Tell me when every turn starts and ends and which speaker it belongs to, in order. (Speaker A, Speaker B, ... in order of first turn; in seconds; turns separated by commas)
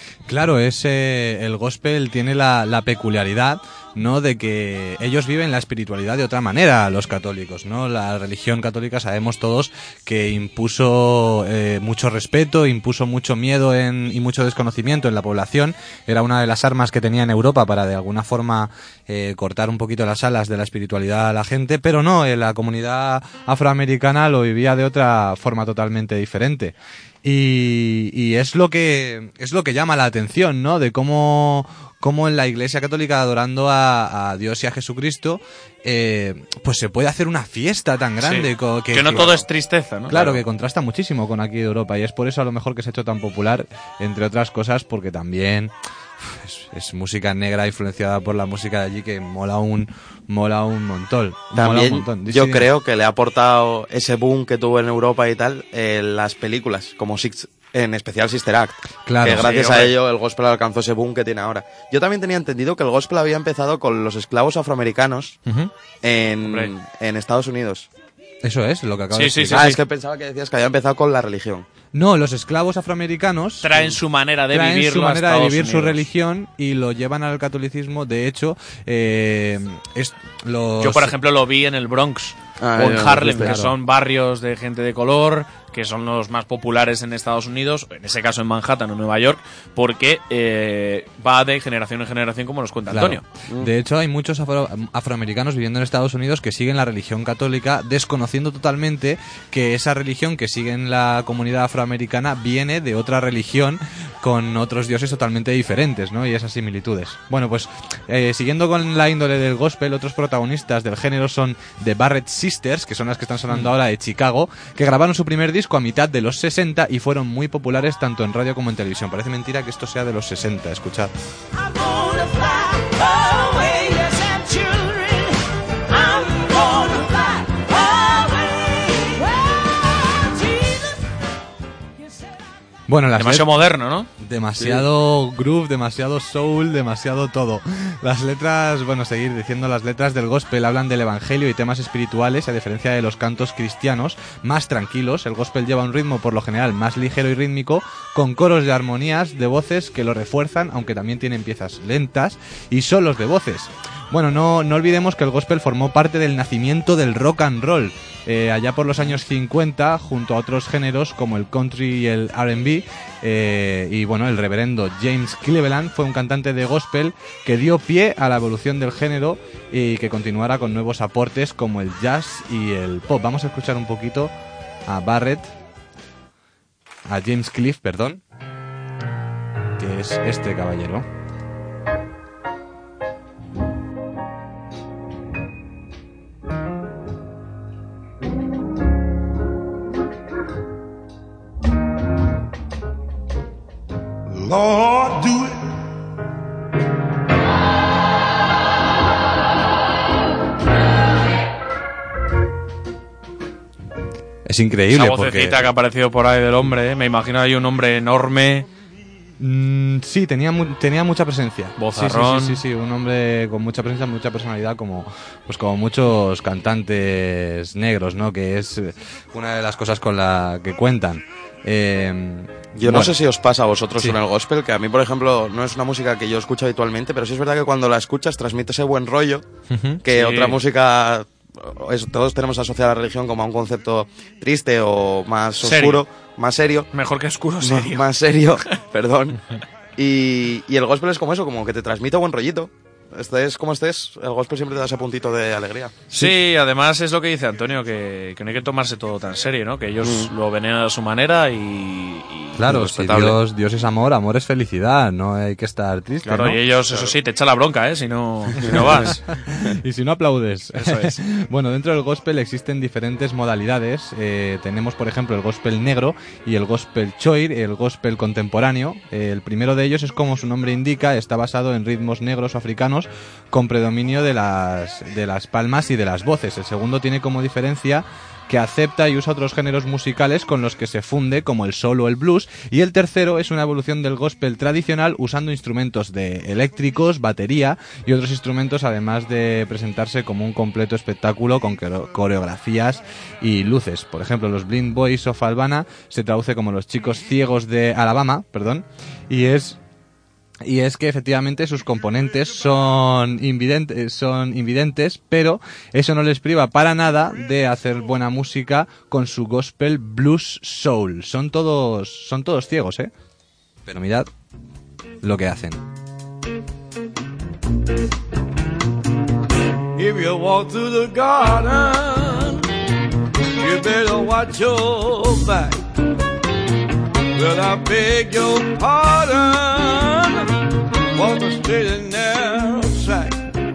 Speaker A: 0.3-39.4, Speaker B: 38.2-40.4, Speaker A: 40.1-52.7, Speaker C: 51.5-65.4, Speaker A: 59.1-59.5, Speaker B: 59.4-59.9, Speaker C: 66.0-67.9, Speaker B: 66.5-66.7, Speaker A: 68.4-69.7, Speaker B: 69.1-69.8, Speaker C: 69.5-71.7, Speaker A: 71.9-74.0, Speaker B: 73.6-76.0, Speaker A: 74.5-81.2, Speaker B: 80.8-93.2, Speaker C: 82.6-83.6, Speaker A: 83.2-83.7, Speaker A: 92.9-121.1, Speaker D: 123.7-124.8, Speaker D: 126.3-127.2, Speaker A: 132.9-133.5, Speaker B: 133.2-134.1, Speaker A: 134.2-174.3, Speaker A: 174.9-175.5, Speaker A: 177.1-178.2, Speaker A: 179.8-181.1, Speaker D: 194.4-195.5, Speaker A: 204.5-205.7, Speaker B: 204.9-208.7, Speaker A: 209.4-223.1, Speaker B: 211.8-212.6, Speaker C: 222.8-229.5, Speaker A: 229.7-230.0, Speaker C: 230.0-236.9, Speaker B: 230.1-230.6, Speaker B: 235.6-236.0, Speaker B: 236.9-238.1, Speaker C: 237.6-239.4, Speaker C: 240.0-246.0, Speaker B: 246.1-252.7, Speaker C: 250.0-250.3, Speaker A: 252.6-256.6, Speaker C: 252.7-253.4, Speaker B: 256.2-259.2, Speaker A: 259.3-299.8, Speaker B: 260.8-261.1, Speaker A: 300.6-313.1, Speaker A: 313.9-314.3, Speaker A: 315.2-315.8, Speaker E: 319.9-322.6, Speaker E: 323.6-325.8, Speaker E: 327.4-330.5, Speaker E: 331.1-333.4